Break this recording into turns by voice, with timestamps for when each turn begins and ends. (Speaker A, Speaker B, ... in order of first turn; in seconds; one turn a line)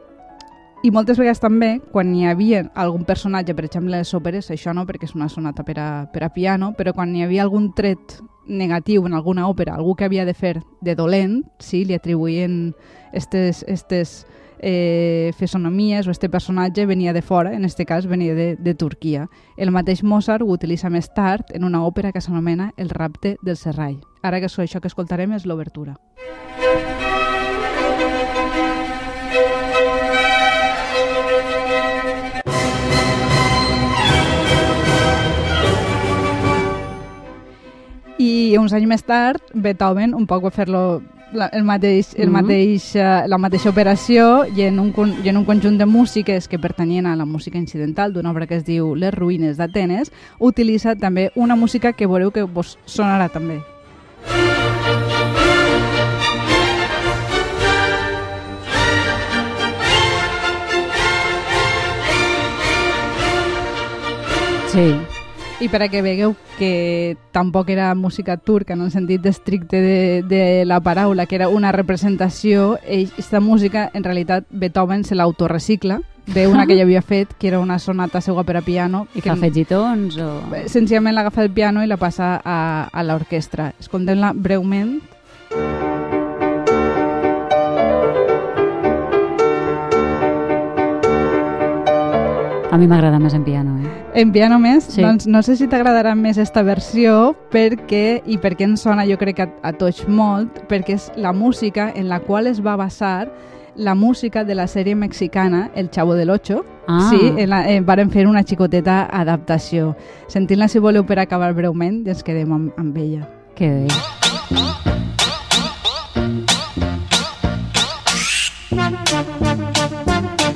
Speaker A: 0.8-26.0
Speaker A: 38.2-53.7
Speaker B: 42.2-42.6
Speaker B: 64.7-65.1
Speaker A: 65.6-79.5
Speaker B: 79.1-80.7
Speaker A: 80.5-85.1
Speaker B: 92.7-94.0
Speaker A: 94.1-113.3
Speaker B: 94.9-95.2
Speaker B: 106.9-107.4
Speaker B: 113.5-114.0